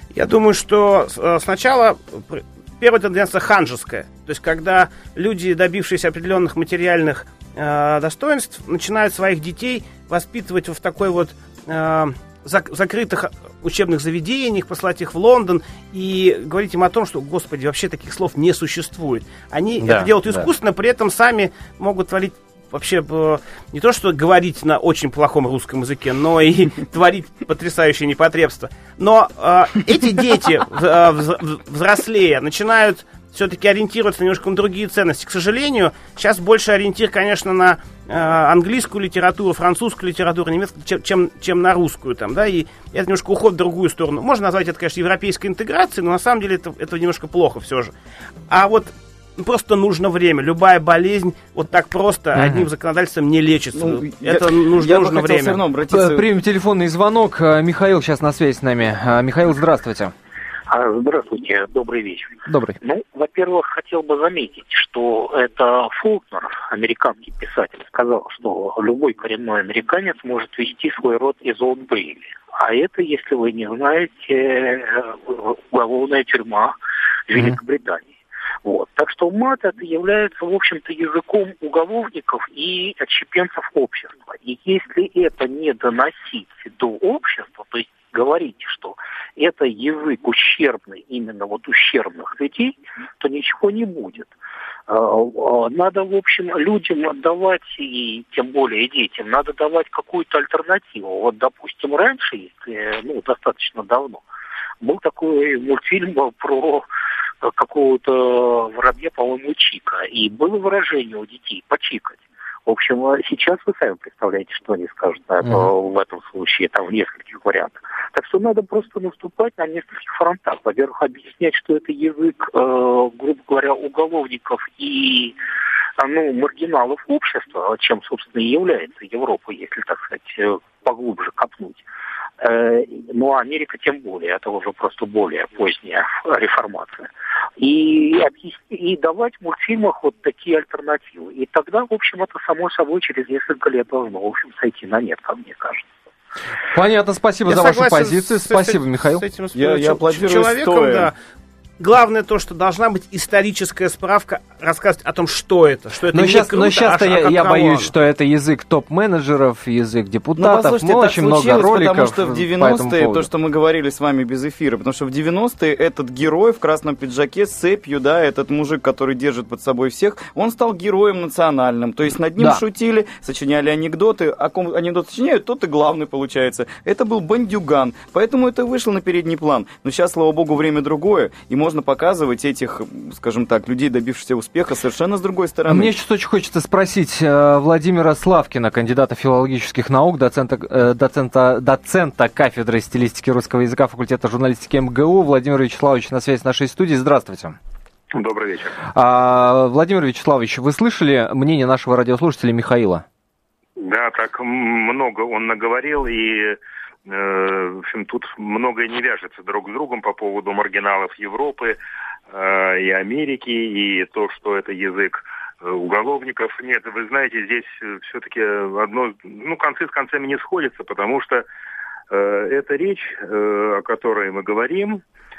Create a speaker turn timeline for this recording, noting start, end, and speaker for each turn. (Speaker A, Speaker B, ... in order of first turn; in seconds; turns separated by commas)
Speaker A: 0.1-47.9, Speaker B: 19.8-20.5, Speaker A: 48.5-55.6, Speaker B: 52.3-52.7, Speaker C: 53.7-56.3, Speaker B: 55.9-60.1, Speaker D: 60.7-76.8, Speaker B: 62.5-62.8, Speaker D: 77.3-78.1, Speaker D: 78.6-94.3, Speaker D: 94.9-104.2, Speaker D: 104.8-106.9, Speaker D: 107.4-125.3, Speaker B: 115.4-115.7, Speaker D: 126.0-131.8, Speaker D: 132.4-145.8, Speaker B: 146.7-149.2, Speaker A: 147.5-151.1, Speaker C: 149.5-151.1, Speaker A: 151.8-157.9, Speaker B: 156.1-163.3, Speaker C: 160.4-185.9, Speaker B: 185.7-197.6, Speaker E: 198.2-198.8, Speaker B: 198.9-203.0, Speaker E: 203.9-206.6, Speaker E: 207.1-211.8, Speaker E: 212.3-221.4, Speaker E: 222.1-225.0